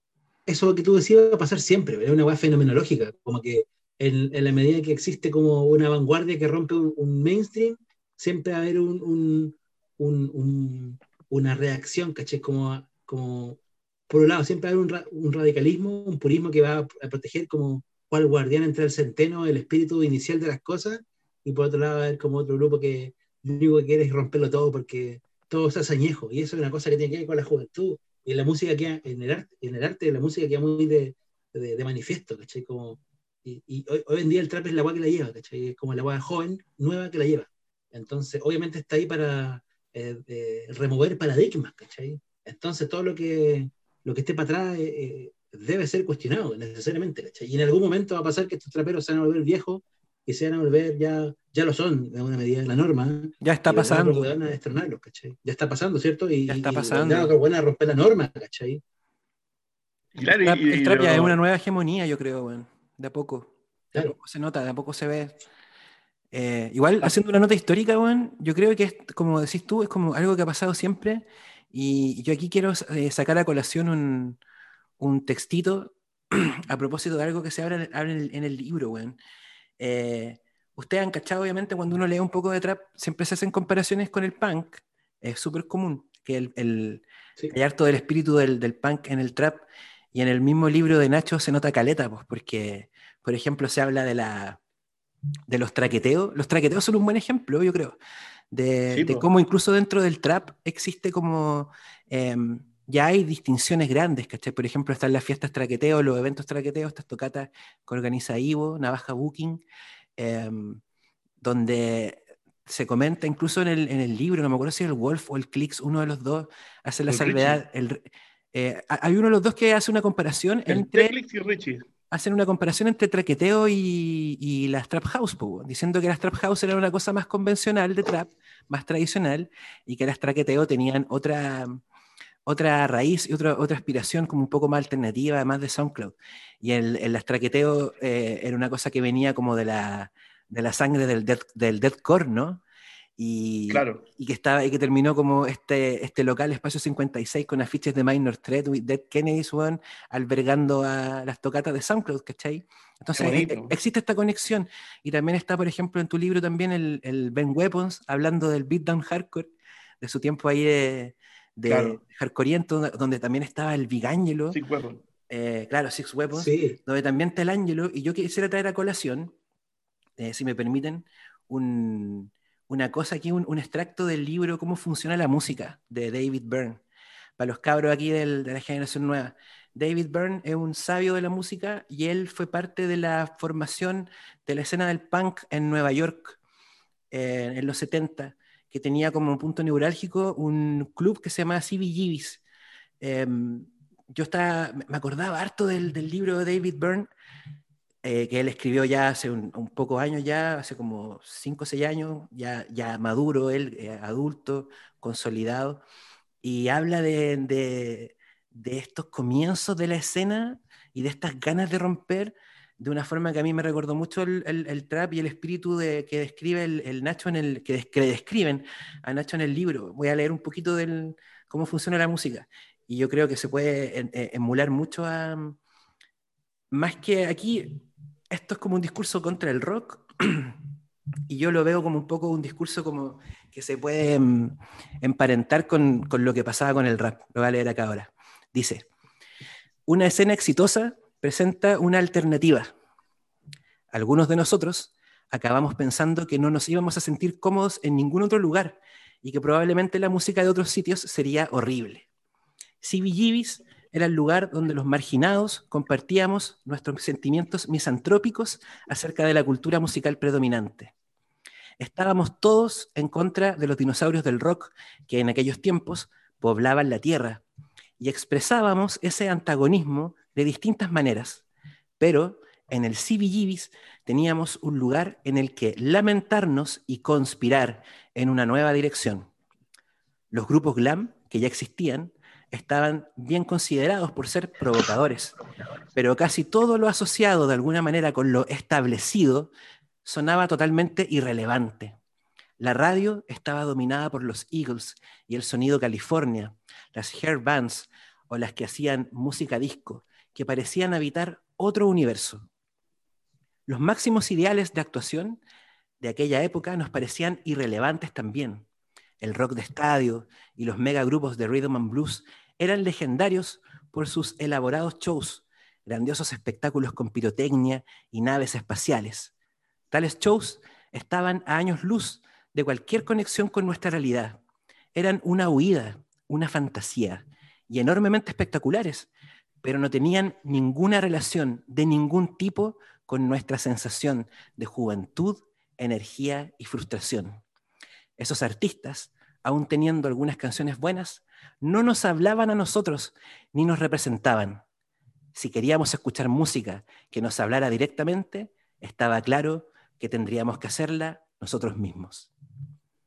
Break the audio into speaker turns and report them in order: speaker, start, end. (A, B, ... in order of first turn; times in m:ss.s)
0:00.5-0:58.8 A
0:53.4-0:54.3 B
0:56.5-0:57.3 B
1:00.2-1:01.4 C
1:00.4-1:05.4 B
1:06.3-1:14.4 B
1:15.0-1:19.2 B
1:19.8-1:34.6 B
1:35.5-1:38.0 B
1:38.5-1:49.6 B
1:38.9-1:39.3 C
1:50.2-1:50.8 B
1:51.4-2:01.1 B
1:57.1-1:57.6 C
2:00.7-2:01.8 C
2:02.1-2:11.8 B
2:12.5-2:22.6 B
2:23.2-2:39.5 B
2:23.7-2:24.0 C
2:33.1-2:33.7 C
2:40.0-2:44.6 B
2:41.7-2:42.0 C
2:44.5-2:45.0 C
2:45.3-2:49.3 B
2:46.3-2:46.8 A
2:50.2-2:56.8 B
2:57.4-3:06.4 B
3:07.1-3:12.4 B
3:13.0-3:17.1 B
3:18.0-3:25.8 B
3:26.4-3:45.6 B
3:46.7-3:47.8 B
3:48.3-3:50.6 B
3:51.3-3:58.9 B
3:59.9-4:02.7 B
4:03.9-4:12.1 B
4:12.8-4:20.9 B
4:21.8-4:27.4 B
4:28.0-4:31.4 B
4:32.0-4:39.3 B
4:40.3-4:45.4 B
4:46.0-4:49.5 B
4:50.0-4:52.0 B
4:52.6-5:02.5 B
5:03.7-5:05.4 B
5:06.0-5:08.7 B
5:09.2-5:19.3 B
5:19.9-5:24.4 B
5:25.0-5:29.1 B
5:29.6-5:37.4 B
5:38.2-5:44.6 B
5:45.4-5:52.3 B